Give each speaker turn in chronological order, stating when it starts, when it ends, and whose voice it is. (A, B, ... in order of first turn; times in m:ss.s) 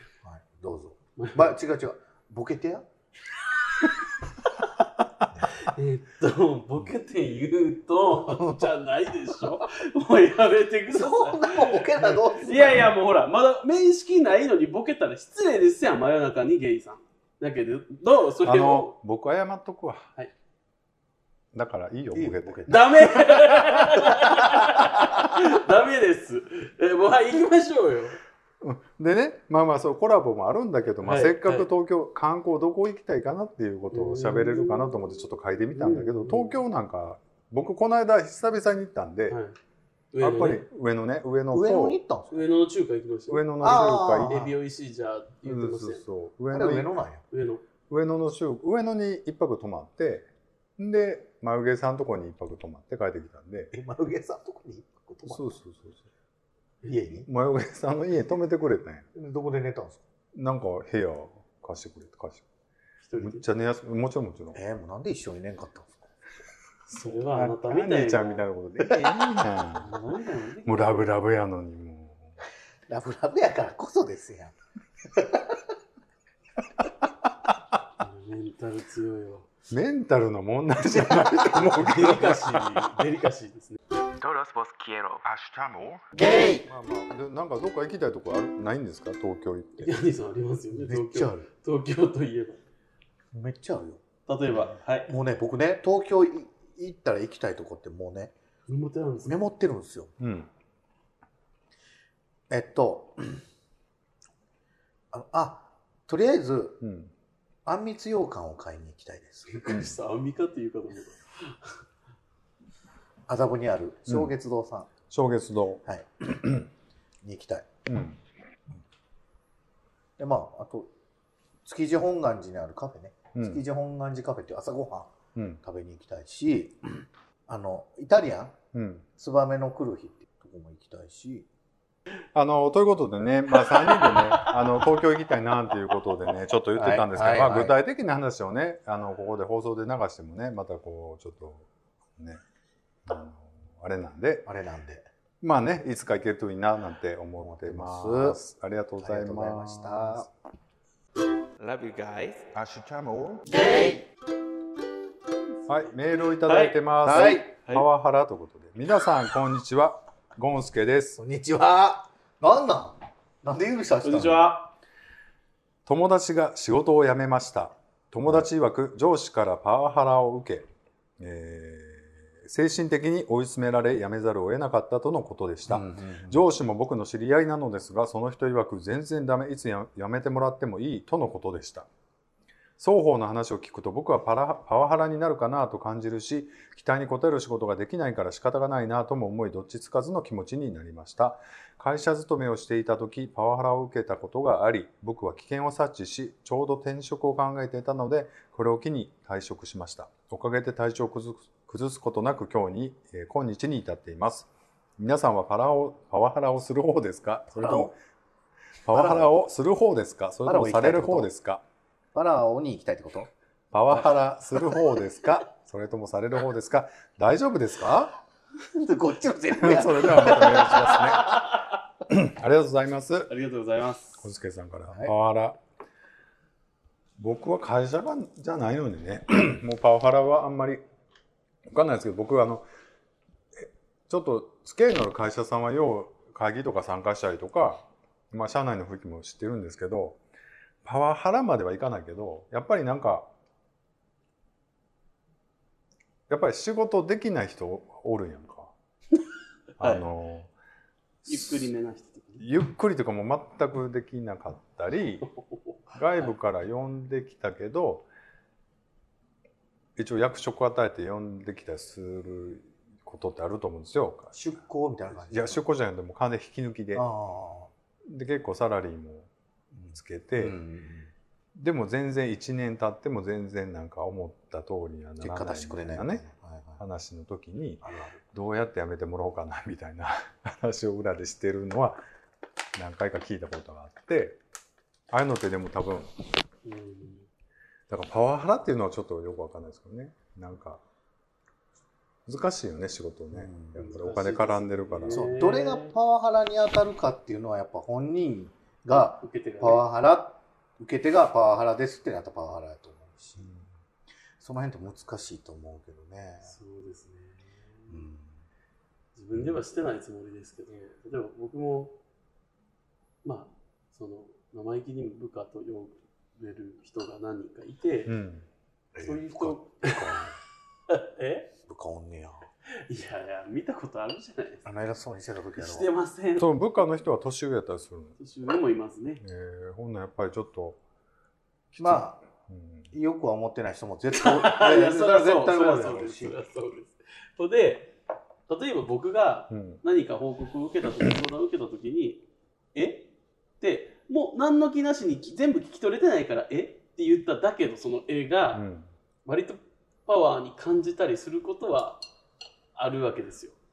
0:00.2-0:02.9 A
0:01.2-0:01.5 B
0:05.6-0:18.9 B
0:10.9-0:12.9 A
0:18.4-0:20.1 C
0:21.5-0:23.0 C
0:22.1-0:23.4 A
0:22.7-0:28.2 B
0:24.1-0:25.1 A
0:28.6-0:39.4 C
0:31.0-0:31.7 B
0:33.9-0:35.1 B
0:35.8-0:36.6 B
0:39.3-0:39.5 B
0:40.1-0:40.6 B
0:40.2-0:42.0 C
0:41.5-0:42.4 A
0:42.3-0:46.0 B
0:43.3-0:44.4 C
0:43.6-0:44.6 A
0:45.4-0:46.9 C
0:46.5-0:47.2 A
0:47.3-0:47.6 B
0:47.9-0:53.7 C
0:53.7-0:55.5 A
0:55.3-0:56.1 C
0:56.8-0:57.3 A
0:57.3-0:59.1 C
0:59.2-1:00.0 A
1:00.3-1:02.4 C
1:03.1-1:03.4 B
1:03.2-1:04.6 C
1:04.5-1:06.0 A
1:06.9-1:09.9 C
1:07.0-1:08.5 B
1:09.7-1:11.1 B
1:10.7-1:12.3 C
1:12.9-1:14.5 A
1:15.1-1:15.6 A
1:18.0-1:19.5 B
1:19.7-1:23.0 C
1:21.5-1:23.8 B
1:24.2-1:26.0 D
1:26.6-1:29.9 C
1:29.8-1:32.6 B
1:30.7-1:31.5 A
1:33.3-1:34.0 A
1:34.3-1:35.1 B
1:35.1-1:38.3 A
1:38.7-1:39.4 B
1:39.2-1:40.1 A
1:40.2-1:40.5 C
1:42.5-1:43.4 A
1:45.1-1:46.8 A
1:46.8-1:47.1 C
1:47.7-1:49.9 A
1:49.5-1:51.8 B
1:53.3-1:54.9 A
1:55.1-1:55.8 C
1:55.9-1:56.4 A
1:57.2-1:57.7 A
1:57.9-1:58.2 C
2:00.2-2:00.9 A
2:01.6-2:05.1 A
2:03.4-2:03.6 C
2:05.4-2:05.6 C
2:05.6-2:08.6 A
2:08.7-2:09.1 C
2:09.2-2:11.5 A
2:12.4-2:21.7 C
2:16.8-2:17.8 A
2:23.1-2:24.5 C
2:24.5-2:25.1 A
2:25.4-2:30.3 C
2:27.4-2:28.4 A
2:29.0-2:30.3 A
2:31.6-2:34.0 D
2:35.7-2:41.2 C
2:36.3-2:37.8 B
2:37.0-2:37.5 A
2:41.2-2:44.5 A
2:44.0-2:44.7 B
2:45.9-2:50.7 C
2:51.2-3:01.9 C
2:55.7-2:56.4 A
3:02.8-3:27.9 C
3:27.5-3:27.9 A
3:28.8-3:31.6 C
3:28.9-3:29.3 A
3:30.4-3:31.3 A
3:32.1-3:33.3 A
3:33.7-3:38.2 C
3:38.6-3:41.2 A
3:39.6-3:41.3 C
3:42.1-3:43.3 C
3:43.3-3:44.2 B
3:44.2-3:45.6 C
3:44.9-3:45.1 A
3:47.2-3:50.8 C
3:51.7-3:52.7 C
3:53.6-4:00.2 C
4:00.8-4:03.3 C
4:06.3-4:08.7 C
4:09.8-4:10.5 C
4:11.3-4:12.5 B
4:11.3-4:11.7 C
4:12.4-4:15.3 C
4:15.9-4:18.1 C
4:20.0-4:24.4 C
4:24.3-4:25.6 A
4:25.3-4:27.1 C
4:27.0-4:27.7 A
4:28.1-4:29.3 C
4:29.8-4:31.1 A
4:29.9-4:30.6 C
4:31.6-4:36.2 C
4:35.2-4:36.8 A
4:36.8-4:42.0 C
4:37.8-4:38.2 A
4:42.8-4:44.4 C
4:45.1-4:46.1 C
4:46.6-4:47.3 B
4:47.9-4:50.8 C
4:52.3-4:55.3 C
4:53.3-4:53.7 A
4:53.8-4:56.0 B
4:55.1-5:03.5 A
4:58.9-4:59.9 B
5:04.4-5:06.5 A
5:06.4-5:08.0 B
5:07.9-5:08.3 A
5:09.2-5:12.0 B
5:13.2-5:18.1 B
5:18.1-5:18.5 C
5:18.9-5:19.5 A
5:19.0-5:20.1 B
5:19.9-5:20.4 C
5:20.9-5:21.5 B
5:21.6-5:22.5 A
5:22.9-5:24.7 B
5:24.6-5:25.9 A
5:25.6-5:26.5 B
5:26.4-5:28.2 C
5:28.2-5:29.2 B
5:29.2-5:30.8 C
5:31.7-5:32.9 C
5:31.8-5:32.2 A
5:32.9-5:36.4 A
5:34.1-5:37.9 B
5:38.5-5:42.2 B
5:39.5-5:39.8 C
5:42.8-5:43.1 B
5:43.6-5:48.6 B
5:48.5-5:48.9 C
5:49.3-5:52.0 B
5:52.8-5:53.6 B